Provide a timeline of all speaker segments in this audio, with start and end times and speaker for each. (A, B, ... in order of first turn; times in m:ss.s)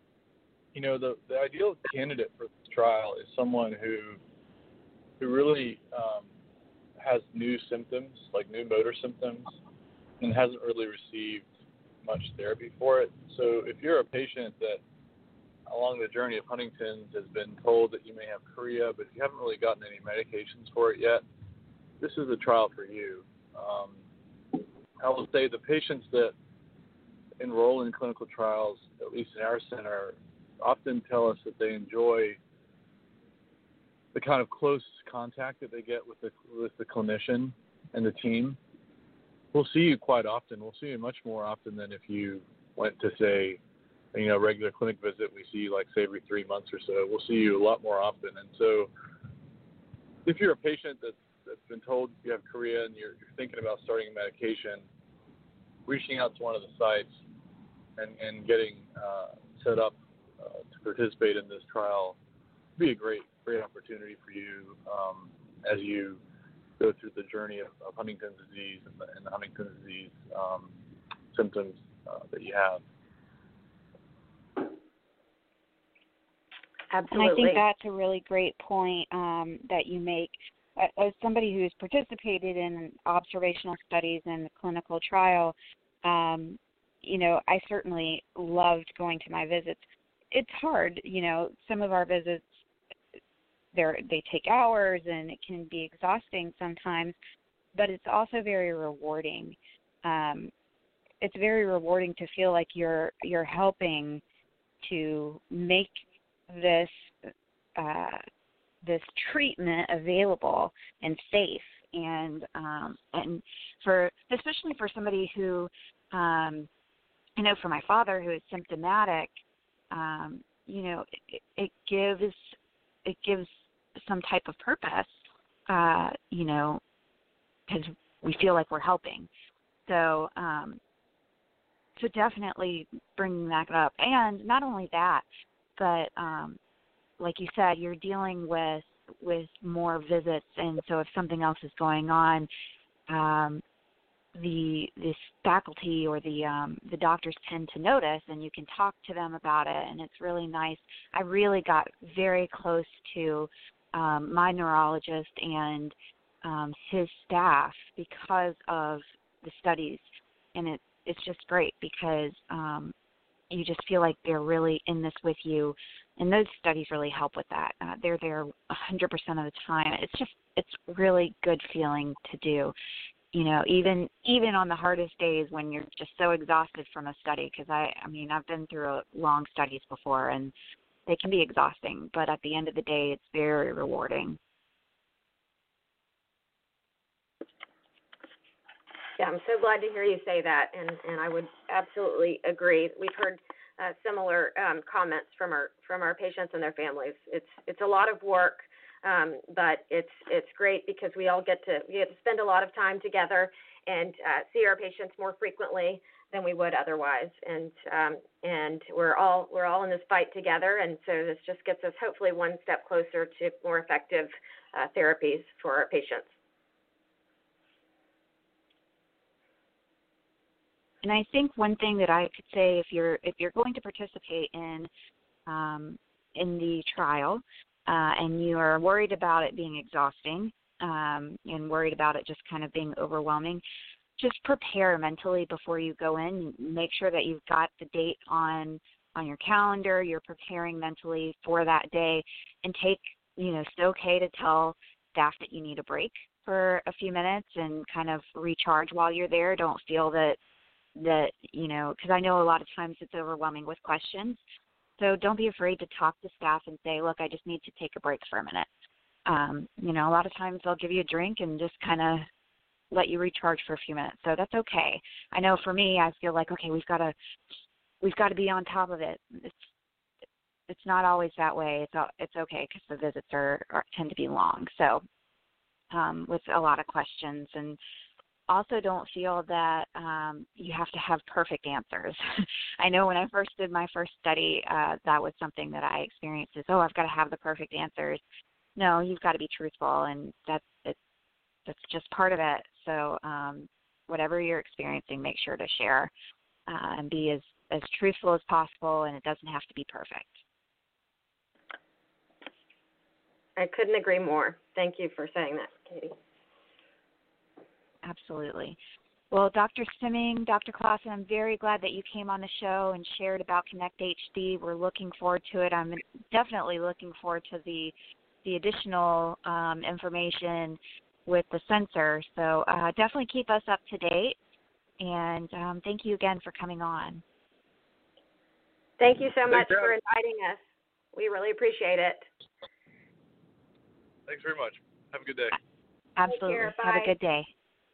0:00.7-0:04.2 A
0:05.2-0:06.3 A
0:07.0-0:09.6 A
0:10.2-0:11.4 A
0:12.0-0:14.8 A
0:15.7-0:21.2 A
0:22.0-0:24.0 A
0:24.5-0:26.3 A
0:27.4-0:32.4 A
0:34.1-0:38.6 A
0:39.5-0:43.6 A
0:44.1-0:48.9 A
0:50.2-0:54.9 A
0:55.9-0:57.2 A
0:58.0-1:02.2 A
1:02.8-1:06.2 A
1:06.8-1:10.8 A
1:11.3-1:12.8 A
1:16.9-1:17.6 B
1:17.1-1:32.6 C
1:33.7-1:37.1 C
1:37.8-1:40.5 C
1:41.2-1:44.2 C
1:44.8-1:48.2 C
1:48.8-1:56.7 C
1:57.4-1:59.4 C
1:59.9-2:06.8 C
2:07.7-2:09.3 C
2:09.9-2:10.8 C
2:12.0-2:15.2 C
2:15.8-2:16.6 C
2:17.2-2:22.5 C
2:23.1-2:23.6 C
2:24.4-2:42.9 C
2:43.5-2:52.7 C
2:53.3-3:00.5 C
3:01.1-3:04.4 C
3:09.2-3:36.3 B
3:41.0-3:44.9 C
3:45.5-3:53.6 C
3:54.2-4:10.4 C
4:11.0-4:14.4 C
4:15.0-4:18.7 C
4:19.3-4:22.3 C
4:22.9-4:27.2 C
4:28.0-4:29.7 C
4:30.7-4:35.0 C
4:35.9-4:37.8 C
4:38.5-4:48.2 C
4:48.8-4:51.0 C
4:51.7-4:56.1 C
4:56.7-5:00.4 C
5:03.6-5:06.2 B
5:08.0-5:08.8 C
5:09.3-5:24.4 C
5:25.0-5:27.2 C
5:29.0-5:30.6 B
5:29.5-5:29.9 A
5:31.1-5:32.3 B
5:34.3-5:35.6 A
5:36.2-5:37.5 C
5:36.3-5:37.1 B